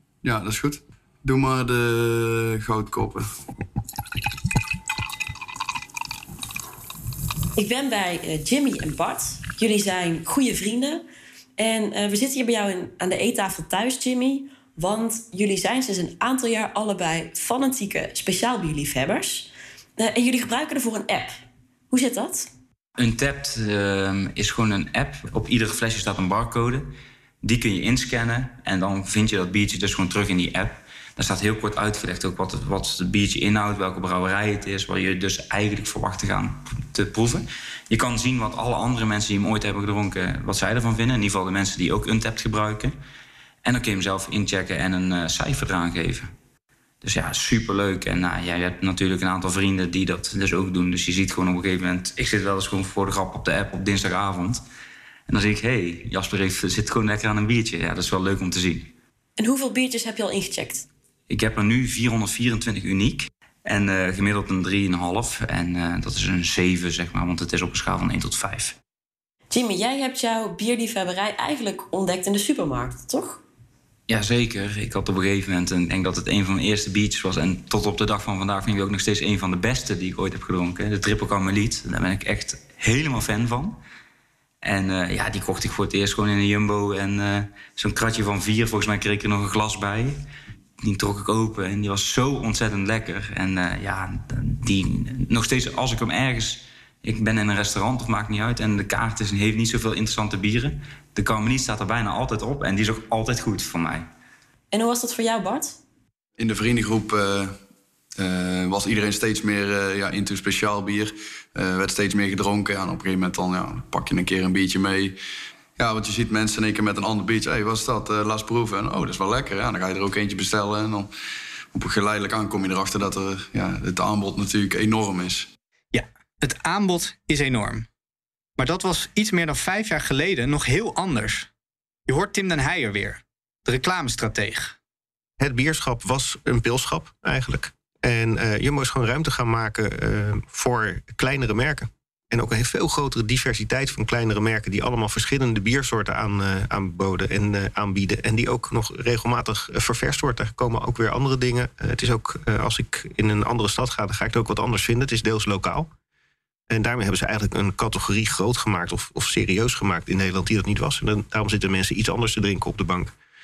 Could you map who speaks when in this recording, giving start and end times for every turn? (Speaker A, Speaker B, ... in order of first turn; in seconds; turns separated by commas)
Speaker A: 0.2-3.3, Speaker B: 7.5-11.0, Speaker B: 11.6-21.3, Speaker B: 21.9-22.5, Speaker C: 23.0-26.9, Speaker C: 27.4-43.0, Speaker C: 43.6-46.3, Speaker C: 47.0-54.6, Speaker C: 55.3-58.9, Speaker B: 59.4-60.9, Speaker C: 61.3-68.7, Speaker B: 69.5-73.4, Speaker C: 74.1-83.8, Speaker C: 84.6-90.2, Speaker C: 90.8-104.1, Speaker B: 104.7-105.8, Speaker A: 106.4-107.6, Speaker A: 108.2-115.1, Speaker A: 115.8-121.1, Speaker A: 121.7-125.5, Speaker D: 125.9-127.9, Speaker D: 128.6-131.5, Speaker D: 132.1-134.8, Speaker E: 135.4-155.9, Speaker E: 156.7-163.1